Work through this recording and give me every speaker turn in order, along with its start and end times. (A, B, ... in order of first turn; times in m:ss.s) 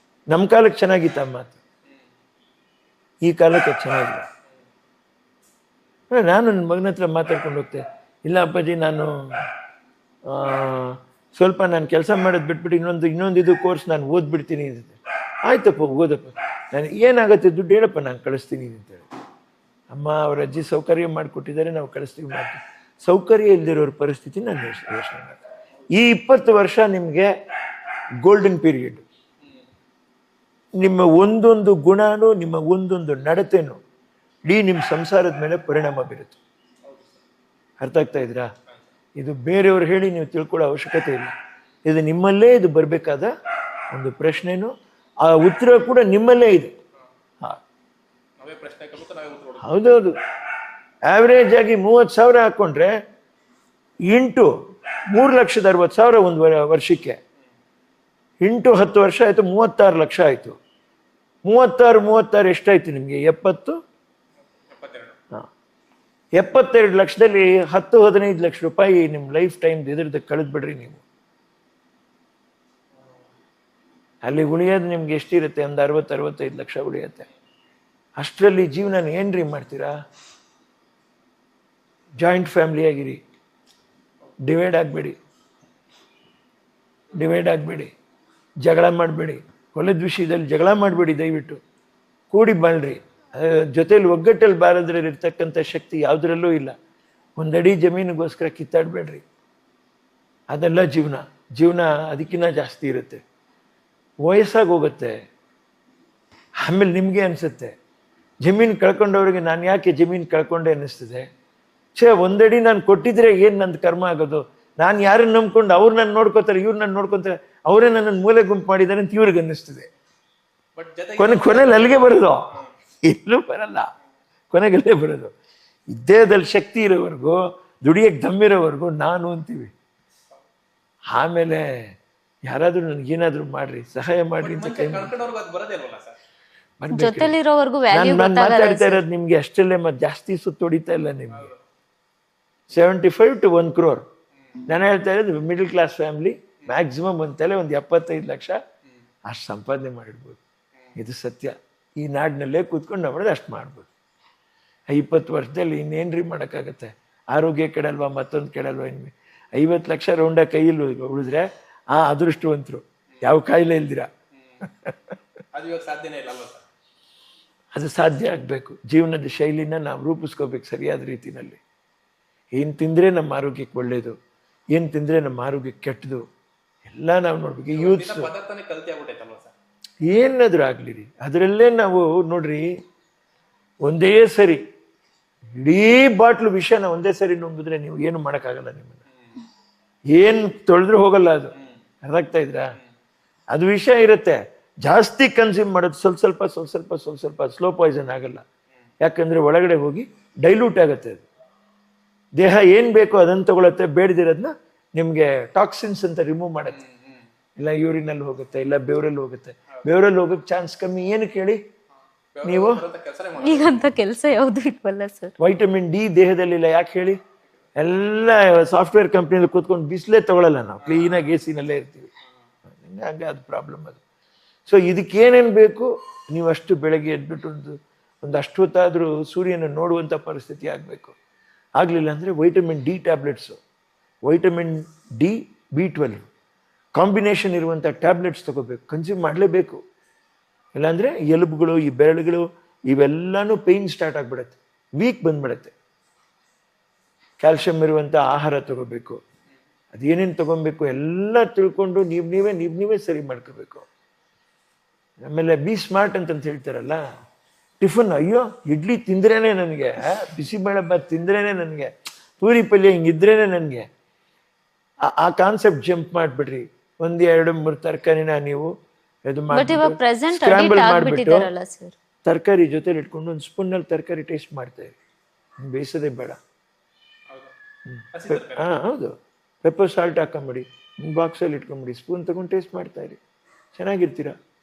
0:00.3-0:01.6 A
0:03.2-0:04.2 A
0:06.1-0:09.1 A
0:10.3-0:19.0 A
0:19.9-0:25.4 A
0:25.9-0:27.3 A
0:28.2-0:29.0 A
0:30.8-0:33.8 A
0:34.5-0:36.4 A
0:37.8-0:38.5 A
0:39.2-0:41.3 A
0:41.8-0:43.3 A
0:43.9-0:44.7 A
0:45.2-0:46.7 A
0:48.4-0:49.7 B
0:49.6-0:50.2 A
0:51.1-0:53.0 A
0:54.1-0:54.5 A
0:55.1-0:57.2 A
0:58.4-1:00.6 A
1:01.5-1:03.8 A
1:04.7-1:05.2 B
1:06.4-1:11.0 A
1:14.2-1:17.3 A
1:18.2-1:19.9 A
1:22.2-1:23.2 A
1:24.4-1:25.2 A
1:27.1-1:27.9 A
1:28.6-1:31.6 A
1:32.3-1:36.7 A
1:37.4-1:39.2 A
1:40.5-1:43.2 A
1:44.2-1:45.2 A
1:46.6-1:47.7 A
1:48.4-1:51.3 A
1:52.0-1:59.9 A
2:00.8-2:02.7 B
2:01.2-2:02.4 A
2:03.0-2:03.9 A
2:04.5-2:05.3 A
2:05.9-2:09.7 A
2:11.1-2:11.7 A
2:12.5-2:15.1 A
2:14.4-2:16.2 B
2:16.8-2:17.4 A
2:16.9-2:19.0 C
2:17.9-2:21.5 A
2:21.3-2:21.6 B
2:22.7-2:24.0 A
2:24.6-2:28.6 A
2:29.3-2:30.4 A
2:30.9-2:33.9 A
2:34.9-2:44.1 A
2:45.5-2:46.6 B
2:47.7-2:51.6 A
2:52.6-2:54.2 A
2:54.7-2:56.2 A
2:56.9-2:58.3 A
2:57.7-2:59.5 B
3:00.0-3:02.7 A
3:03.8-3:04.6 A
3:05.6-3:09.0 A
3:10.1-3:11.5 A
3:12.0-3:12.7 A
3:13.5-3:18.4 A
3:19.0-3:21.2 A
3:22.4-3:26.8 A
3:26.7-3:27.2 B
3:27.6-3:31.6 A
3:32.3-3:33.9 B
3:32.4-3:32.8 A
3:33.4-3:35.3 C
3:35.4-3:37.2 A
3:37.8-3:42.1 A
3:40.8-3:41.3 B
3:42.8-3:44.0 A
3:44.6-3:51.2 A
3:51.8-3:53.6 A
3:54.2-3:56.2 A
3:57.0-3:59.8 A
4:00.8-4:05.7 A
4:07.4-4:09.2 A
4:09.9-4:13.8 A
4:15.2-4:17.0 A
4:17.8-4:23.8 A
4:25.1-4:28.7 A
4:29.3-4:31.5 A
4:29.5-4:31.9 C
4:32.2-4:35.0 A
4:35.6-4:36.4 A
4:37.9-4:43.2 A
4:38.1-4:38.7 B
4:43.7-4:44.4 A